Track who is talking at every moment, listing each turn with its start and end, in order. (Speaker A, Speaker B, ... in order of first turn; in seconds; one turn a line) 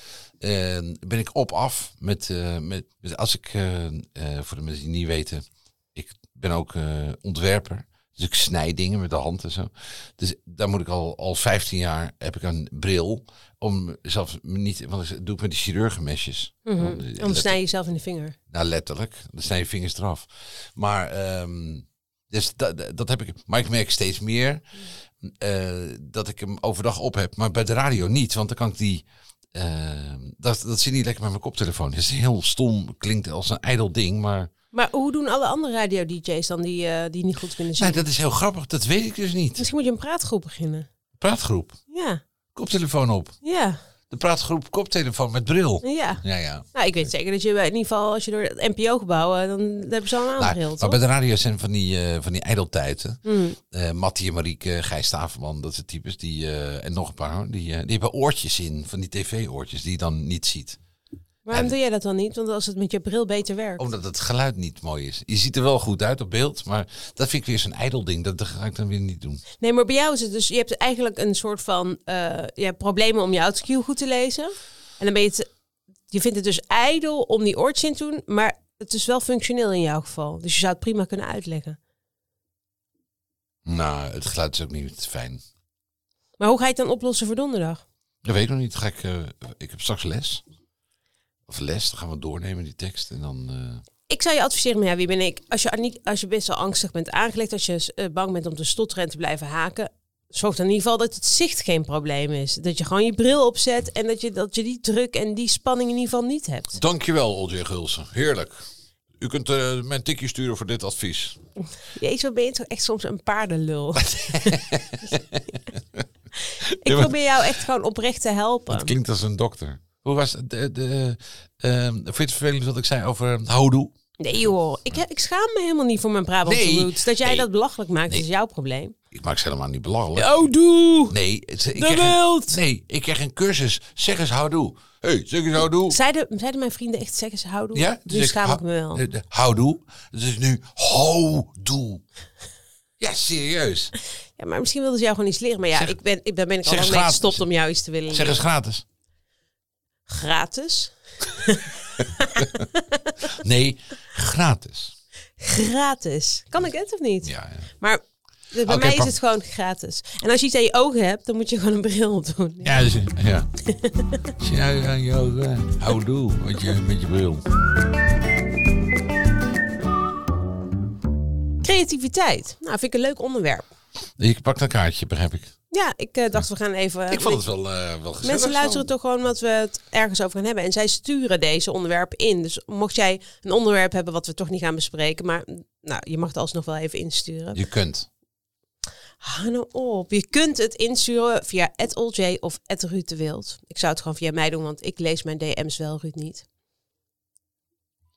Speaker A: 0.4-17.6
Speaker B: 16.7-18.4
Speaker A: 18.5-24.6
Speaker A: 25.2-34.5
Speaker B: 34.7-38.0
Speaker A: 37.8-39.7
Speaker B: 39.6-40.9
Speaker A: 41.2-41.8
Speaker B: 41.9-42.2
Speaker A: 42.5-43.4
Speaker B: 43.4-43.8
Speaker A: 44.1-47.1
Speaker B: 45.8-46.2
Speaker B: 46.7-51.0
Speaker A: 50.4-60.8
Speaker B: 53.2-53.6
Speaker B: 61.5-63.9
Speaker A: 63.8-69.4
Speaker B: 69.6-75.5
Speaker B: 76.1-81.8
Speaker A: 83.7-85.4
Speaker B: 86.4-87.8
Speaker A: 88.2-90.4
Speaker A: 91.5-93.8
Speaker B: 94.1-106.8
Speaker A: 106.8-108.6
Speaker A: 109.2-111.4
Speaker B: 111.9-115.2
Speaker A: 114.0-116.0
Speaker B: 116.4-118.9
Speaker A: 116.7-117.2
Speaker A: 118.7-123.9
Speaker B: 124.2-128.9
Speaker A: 126.5-127.5
Speaker A: 129.1-130.4
Speaker B: 130.2-131.2
Speaker A: 131.1-136.0
Speaker B: 131.8-132.6
Speaker B: 135.9-139.0
Speaker A: 137.7-142.0
Speaker A: 143.0-143.9
Speaker B: 144.4-148.4
Speaker A: 146.7-147.4
Speaker A: 148.1-148.8
Speaker B: 150.1-153.4
Speaker A: 153.3-154.9
Speaker B: 155.4-158.0
Speaker A: 157.2-157.7
Speaker B: 158.5-162.9
Speaker A: 158.7-159.1
Speaker A: 162.6-163.5
Speaker B: 163.7-164.3
Speaker A: 164.4-167.5
Speaker B: 171.6-173.7
Speaker A: 174.2-175.5
Speaker B: 175.7-177.5
Speaker A: 177.1-178.9
Speaker B: 178.2-187.6
Speaker A: 187.5-188.1
Speaker B: 189.2-196.5